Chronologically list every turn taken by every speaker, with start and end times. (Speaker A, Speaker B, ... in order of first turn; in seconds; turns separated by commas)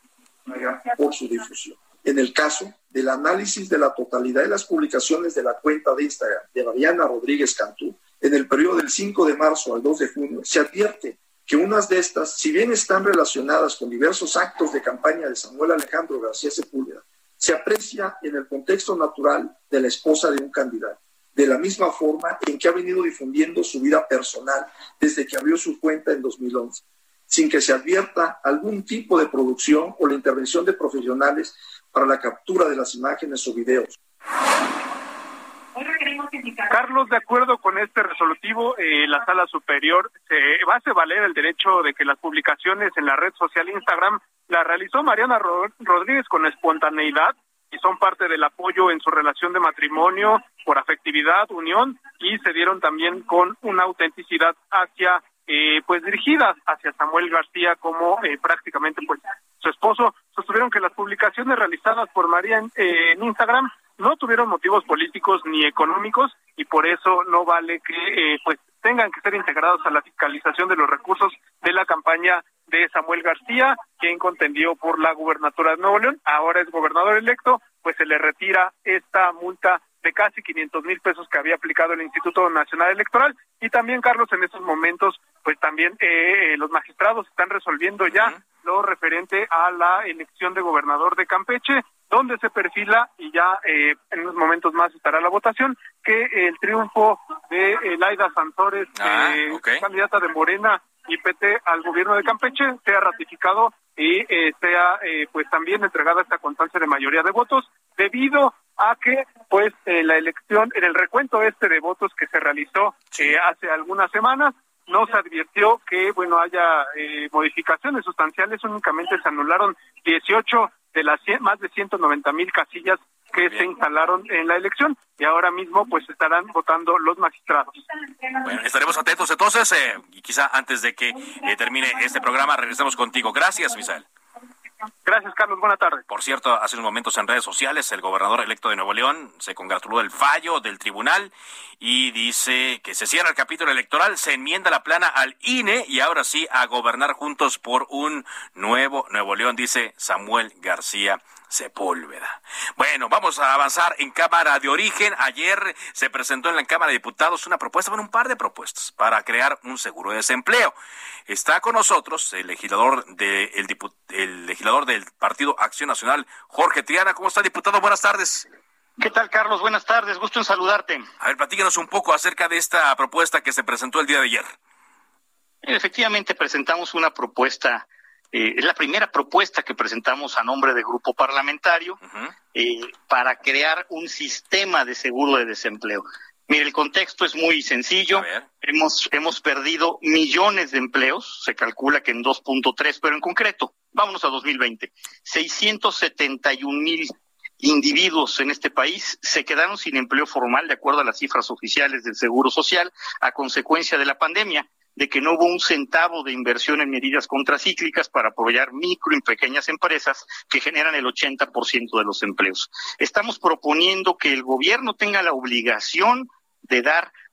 Speaker A: 0.5-34.0, Speaker B: 36.7-127.7, Speaker C: 88.1-88.4, Speaker C: 99.0-99.8, Speaker C: 123.4-123.7, Speaker C: 128.4-134.1, Speaker B: 135.0-136.0, Speaker C: 136.1-160.8, Speaker C: 161.3-168.5, Speaker D: 169.0-171.1, Speaker C: 171.2-174.5, Speaker D: 175.6-182.0, Speaker C: 182.0-182.3, Speaker D: 182.5-217.1, Speaker C: 188.1-188.5